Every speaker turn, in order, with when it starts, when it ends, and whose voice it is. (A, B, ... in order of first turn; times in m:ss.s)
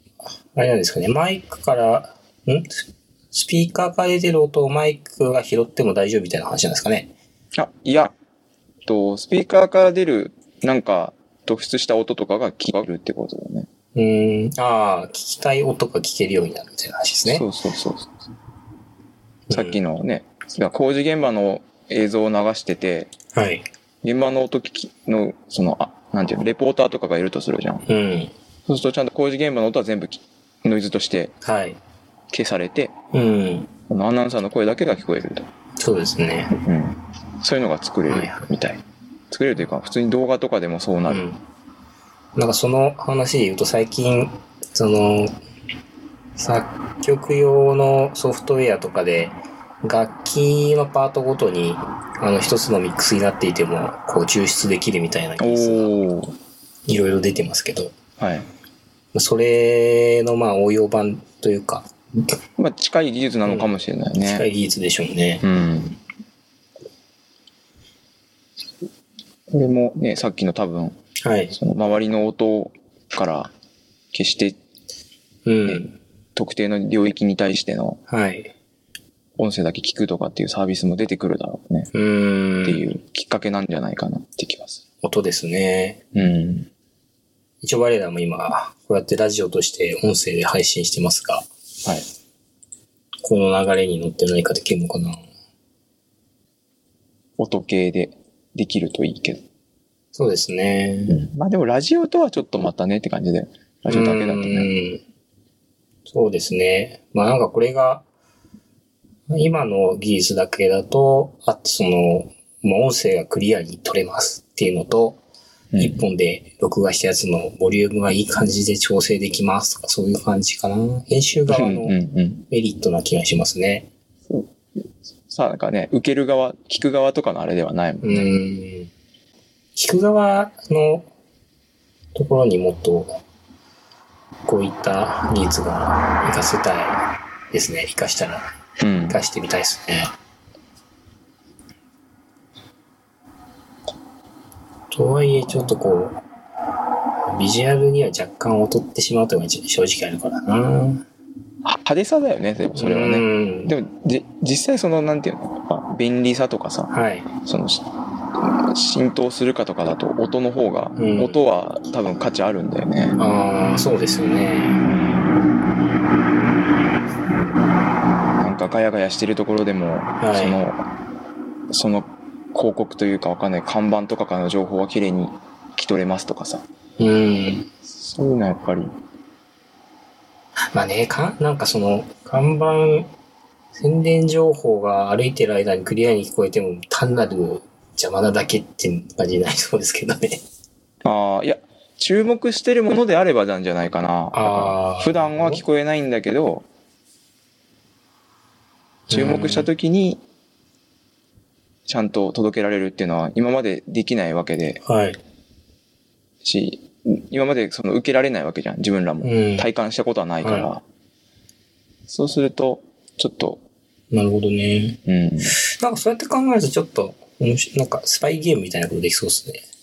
0:00.5-0:07.1 A
0:07.5-0:08.1 B
0:08.8-0:13.7 B
0:13.9-0:17.5 A
0:17.2-0:18.3 B
0:19.5-0:19.8 A
0:19.5-0:23.1 B
0:23.3-0:23.6 A
0:24.0-0:27.8 B
0:27.9-0:28.3 A
0:28.7-0:31.3 B
0:31.4-0:31.8 A
0:32.3-0:32.9 B
0:33.1-0:33.7 A
0:33.9-0:35.5 B
0:35.8-0:36.5 A
0:36.5-0:41.2 B
0:38.1-0:38.5 A
0:41.1-0:41.4 A
0:42.3-0:45.4 A
0:46.4-0:55.9 A
0:55.4-0:56.3 B
0:56.9-0:57.9 A
0:58.2-0:58.5 B
0:59.1-1:01.9 A
1:02.6-1:04.4 B
1:03.4-1:05.5 A
1:05.4-1:06.0 B
1:09.5-1:11.0 B
1:11.2-1:11.6 A
1:11.5-1:13.5 B
1:14.1-1:14.6 B
1:15.4-1:16.0 A
1:15.6-1:18.0 B
1:18.1-1:18.5 A
1:19.4-1:21.9 B
1:21.9-1:22.9 A
1:22.6-1:24.8 B
1:25.0-1:26.0 A
1:26.1-1:26.7 B
1:27.6-1:31.5 A
1:33.2-1:35.2 A
1:37.4-1:39.4 B
1:40.1-1:41.2 A
1:41.1-1:44.7 B
1:43.9-1:45.0 A
1:46.1-1:48.0 A
1:49.3-1:55.2 A
1:55.7-1:56.0 B
1:55.8-2:02.0 A
2:01.5-2:02.4 B
2:02.5-2:03.9 A
2:05.2-2:08.3 B
2:08.0-2:08.9 A
2:09.8-2:11.1 A
2:12.1-2:13.2 A
2:14.4-2:17.0 A
2:17.5-2:20.1 A
2:18.8-2:19.2 B
2:24.9-2:26.2 A
2:27.2-2:31.0 A
2:31.6-2:36.9 B
2:32.7-2:33.7 A
2:36.9-2:37.3 A
2:37.4-2:43.2 B
2:41.0-2:41.3 A
2:43.2-2:44.8 A
2:44.8-2:45.3 B
2:48.4-2:50.8 B
2:50.2-2:50.6 A
2:51.7-2:56.6 B
2:57.0-2:57.7 A
2:57.9-2:58.9 B
3:00.7-3:03.1 A
3:03.7-3:10.4 A
3:11.0-3:16.6 B
3:14.3-3:15.6 A
3:19.1-3:19.7 A
3:19.1-3:20.2 B
3:21.9-3:24.8 B
3:24.8-3:25.2 A
3:26.4-3:30.8 B
3:29.2-3:29.7 A
3:30.4-3:30.7 A
3:32.1-3:33.6 B
3:34.1-3:35.0 A
3:35.0-3:35.6 B
3:35.5-3:39.6 A